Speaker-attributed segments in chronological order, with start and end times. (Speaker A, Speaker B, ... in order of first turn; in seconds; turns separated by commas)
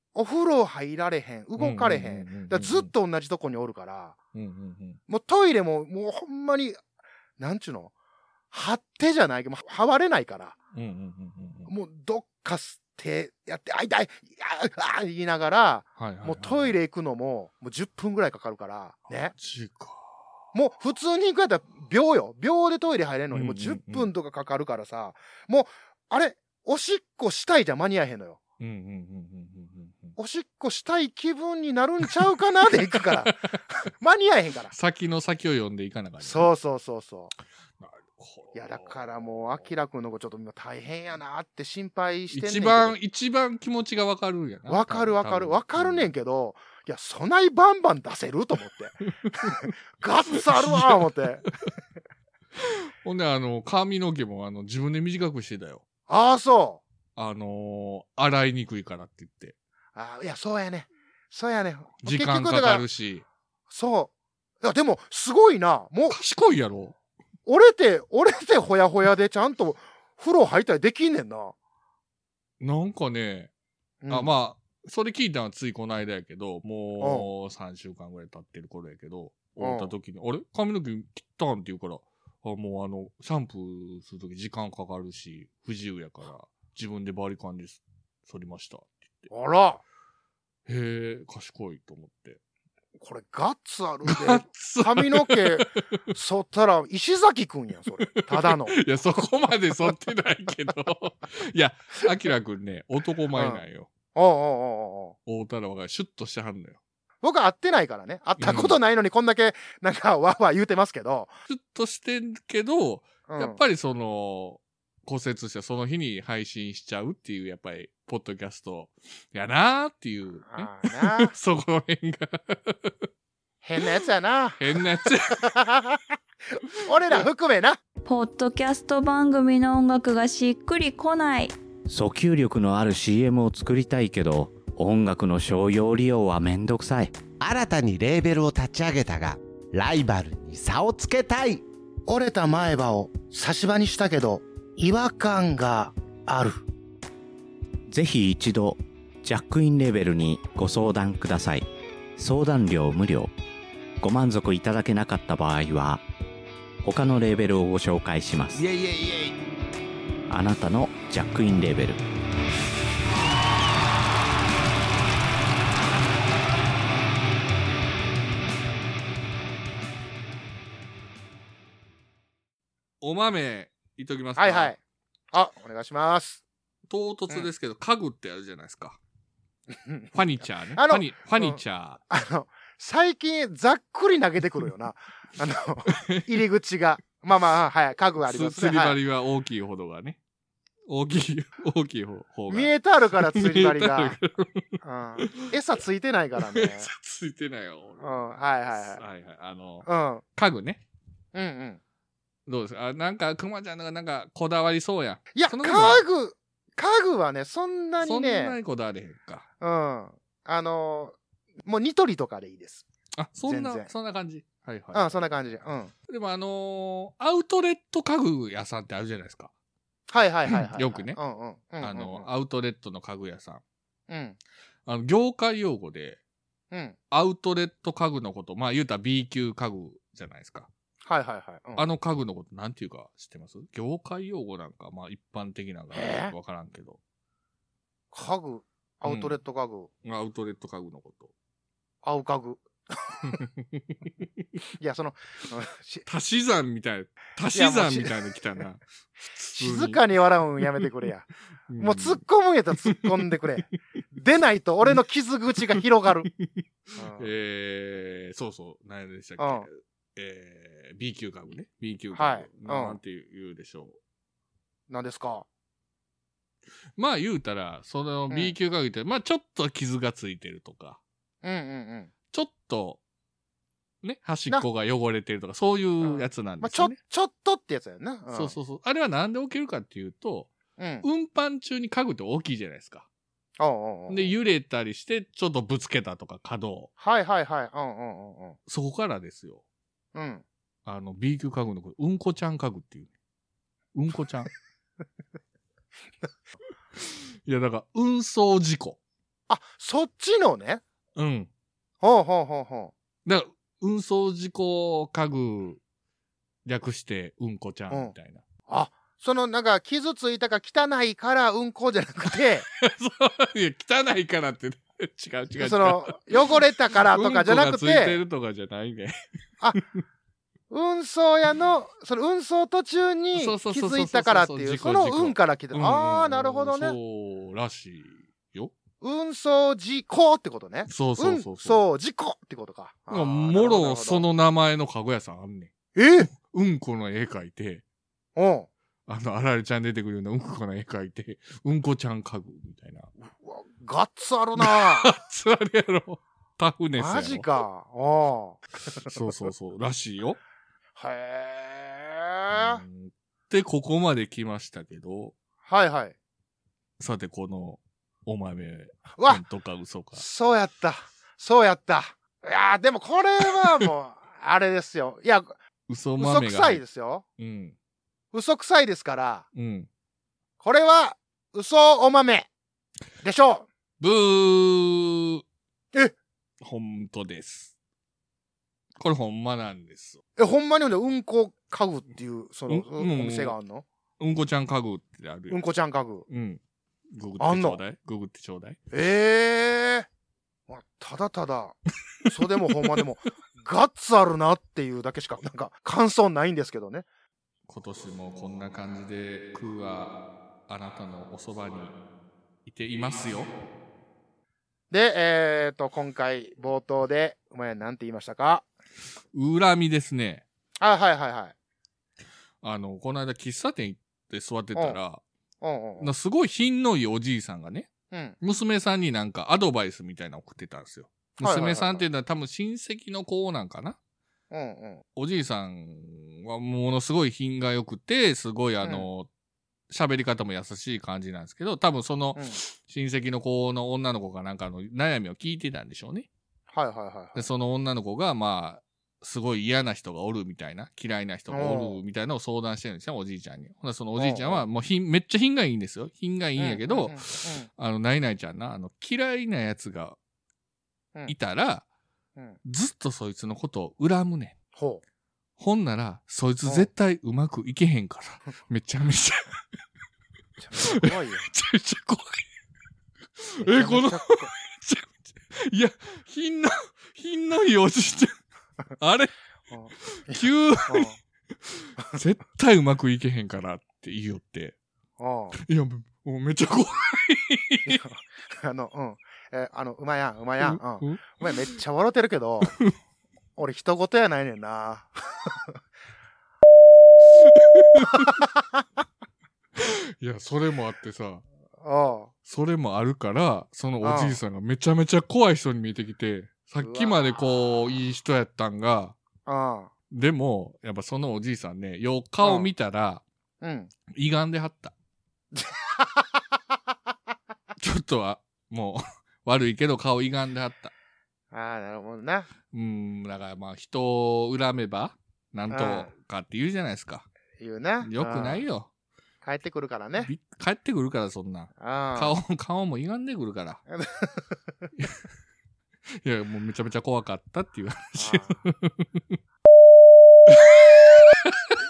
Speaker A: 0.1-4.2, Speaker B: 1.6-2.9, Speaker B: 4.3-5.0, Speaker A: 5.1-6.8, Speaker A: 7.4-7.9, Speaker A: 8.5-10.6, Speaker B: 10.7-11.7, Speaker A: 11.7-19.3, Speaker B: 16.0-16.8, Speaker B: 19.1-20.2, Speaker A: 20.5-28.4, Speaker B: 23.3-24.1, Speaker B: 28.6-30.2, Speaker A: 30.2-34.7, Speaker B: 33.1-33.6, Speaker B: 34.7-36.5, Speaker A: 36.2-37.3, Speaker B: 37.8-39.7, Speaker A: 38.5-43.0, Speaker B: 42.3-46.1, Speaker A: 44.7-51.5, Speaker B: 49.3-49.6, Speaker B: 50.5-51.1, Speaker B: 52.6-55.9, Speaker A: 56.1-56.8, Speaker B: 57.2-59.5, Speaker A: 60.0-62.9, Speaker B: 62.0-63.2, Speaker A: 63.7-66.2, Speaker B: 66.1-67.0, Speaker A: 67.5-71.5, Speaker B: 72.6-73.5, Speaker A: 74.0-74.3, Speaker B: 74.1-89.3, Speaker A: 77.0-77.3, Speaker A: 79.6-79.9, Speaker A: 89.3-89.8, Speaker B: 90.7-92.4, Speaker A: 93.0-98.8, Speaker B: 94.1-95.7, Speaker B: 98.1-103.9, Speaker A: 104.2-105.2, Speaker B: 105.3-106.8, Speaker A: 107.2-111.3, Speaker B: 108.4-108.8, Speaker B: 111.5-123.0, Speaker A: 113.3-113.6, Speaker A: 120.5-121.3, Speaker A: 123.6-126.0, Speaker B: 124.6-125.5, Speaker A: 126.7-127.8, Speaker C: 128.1-131.6, Speaker D: 131.9-137.2, Speaker E: 137.4-141.6, Speaker A: 142.1-146.6, Speaker D: 147.9-153.3, Speaker D: 154.0-156.0, Speaker D: 156.8-158.6, Speaker E: 158.5-159.4, Speaker D: 160.3-162.0, Speaker B: 173.0-174.7, Speaker A: 174.4-174.8, Speaker A: 175.3-176.4, Speaker B: 176.9-179.0, Speaker A: 179.8-189.0, Speaker B: 180.1-182.0, Speaker B: 185.9-186.3, Speaker B: 188.2-190.2, Speaker B: 190.9-194.7, Speaker A: 192.5-194.2, Speaker A: 194.8-196.9, Speaker B: 195.2-195.5, Speaker B: 196.5-198.2, Speaker A: 198.0-199.0, Speaker B: 198.7-200.8, Speaker A: 199.9-200.2, Speaker A: 201.3-201.8, Speaker B: 202.5-206.0, Speaker A: 205.3-208.6, Speaker B: 208.0-209.5, Speaker A: 209.6-212.8, Speaker B: 213.2-215.5, Speaker A: 213.4-213.9, Speaker A: 214.9-215.9, Speaker B: 216.1-219.5, Speaker A: 220.1-222.3, Speaker B: 220.5-221.2, Speaker B: 221.8-223.6, Speaker A: 224.1-224.4, Speaker B: 224.9-226.2, Speaker A: 226.7-227.0, Speaker B: 227.1-230.7, Speaker A: 231.1-231.9, Speaker B: 231.8-237.0, Speaker A: 235.9-236.3, Speaker A: 238.1-239.9, Speaker B: 239.1-239.4, Speaker B: 240.0-241.3, Speaker A: 242.0-243.4, Speaker A: 244.8-246.1, Speaker B: 246.1-250.1, Speaker A: 247.5-248.1, Speaker A: 249.6-251.3, Speaker B: 251.7-252.2, Speaker A: 251.8-256.3, Speaker B: 252.8-253.1, Speaker A: 257.0-257.3, Speaker B: 257.2-264.0, Speaker A: 259.4-259.7, Speaker A: 262.1-263.0, Speaker A: 264.9-265.5, Speaker B: 267.0-271.0, Speaker A: 271.4-272.1, Speaker B: 272.3-273.0, Speaker B: 274.0-277.0, Speaker A: 276.0-278.6, Speaker B: 278.3-280.5, Speaker A: 280.8-281.1, Speaker B: 281.0-283.1, Speaker A: 283.6-284.3, Speaker B: 284.1-286.9, Speaker A: 287.0-288.6, Speaker B: 288.7-289.6, Speaker A: 290.1-290.4, Speaker B: 290.9-293.1, Speaker B: 293.9-294.5, Speaker B: 297.0-299.0, Speaker A: 299.5-300.8, Speaker B: 301.2-301.5, Speaker A: 302.0-302.9, Speaker B: 303.2-305.8, Speaker B: 306.7-308.4, Speaker A: 308.7-312.7, Speaker B: 312.8-319.2, Speaker A: 315.6-318.2, Speaker A: 320.7-327.0, Speaker B: 323.3-328.7, Speaker A: 329.0-334.2, Speaker B: 330.9-331.8, Speaker B: 333.1-335.7, Speaker A: 335.9-336.3, Speaker B: 336.2-337.8, Speaker A: 338.4-338.7, Speaker B: 339.1-343.1, Speaker A: 343.3-345.1, Speaker B: 344.6-347.5, Speaker A: 347.0-349.2, Speaker B: 349.0-350.4, Speaker A: 351.0-352.8, Speaker B: 352.5-355.3, Speaker A: 355.7-356.1, Speaker B: 357.0-360.2, Speaker A: 359.2-359.4, Speaker A: 360.1-365.6, Speaker B: 365.9-366.8, Speaker A: 366.2-367.2, Speaker B: 367.4-367.8, Speaker A: 368.3-369.5, Speaker B: 369.6-369.9, Speaker A: 370.6-372.5, Speaker A: 373.2-373.7, Speaker B: 374.0-375.4, Speaker B: 376.6-377.7, Speaker B: 379.0-380.2, Speaker A: 380.4-383.9, Speaker B: 382.7-383.6, Speaker B: 384.2-385.6, Speaker A: 385.5-386.2, Speaker B: 386.3-386.6, Speaker B: 387.1-388.8, Speaker A: 387.4-387.8, Speaker A: 388.9-390.1, Speaker A: 390.7-397.1, Speaker B: 397.7-400.1, Speaker B: 400.7-401.9, Speaker B: 402.6-403.5, Speaker A: 404.9-408.6, Speaker B: 409.3-410.4, Speaker A: 410.8-411.5, Speaker B: 412.6-415.2, Speaker A: 415.6-416.1, Speaker B: 416.0-417.9, Speaker A: 418.1-418.4, Speaker B: 418.4-424.0, Speaker A: 421.4-422.1, Speaker A: 424.5-425.0, Speaker B: 425.2-429.3, Speaker B: 429.9-436.3, Speaker A: 436.7-437.4, Speaker B: 437.3-450.2, Speaker A: 441.5-442.0, Speaker A: 444.2-444.6, Speaker A: 446.6-447.7, Speaker B: 451.3-451.9, Speaker B: 452.6-454.6, Speaker A: 454.8-455.0, Speaker B: 455.6-459.6, Speaker A: 460.6-461.5, Speaker B: 460.8-462.4, Speaker B: 463.4-468.4, Speaker A: 463.6-464.5, Speaker B: 469.0-469.3, Speaker A: 469.7-471.2, Speaker B: 470.1-471.1, Speaker B: 471.7-474.8, Speaker A: 475.2-475.6, Speaker B: 475.6-478.0, Speaker A: 477.9-482.7, Speaker B: 480.6-481.5, Speaker B: 482.7-482.9, Speaker A: 483.6-485.1, Speaker B: 487.6-488.4, Speaker A: 488.1-488.4, Speaker B: 489.8-491.4, Speaker A: 491.8-492.3, Speaker B: 492.4-499.2, Speaker A: 494.0-494.4, Speaker A: 496.8-497.8, Speaker A: 499.5-499.9, Speaker B: 500.1-503.2, Speaker A: 502.4-502.7, Speaker A: 503.6-503.9, Speaker B: 504.1-504.9, Speaker A: 505.5-506.2, Speaker B: 507.8-510.9, Speaker A: 511.5-512.5, Speaker B: 512.7-517.3, Speaker A: 515.7-516.1, Speaker A: 517.6-518.6, Speaker B: 518.0-518.9, Speaker A: 519.4-520.3, Speaker B: 520.2-523.8, Speaker A: 521.8-522.4, Speaker A: 523.9-524.5, Speaker B: 525.0-525.2, Speaker B: 526.2-529.3, Speaker A: 528.2-528.6, Speaker B: 530.5-531.5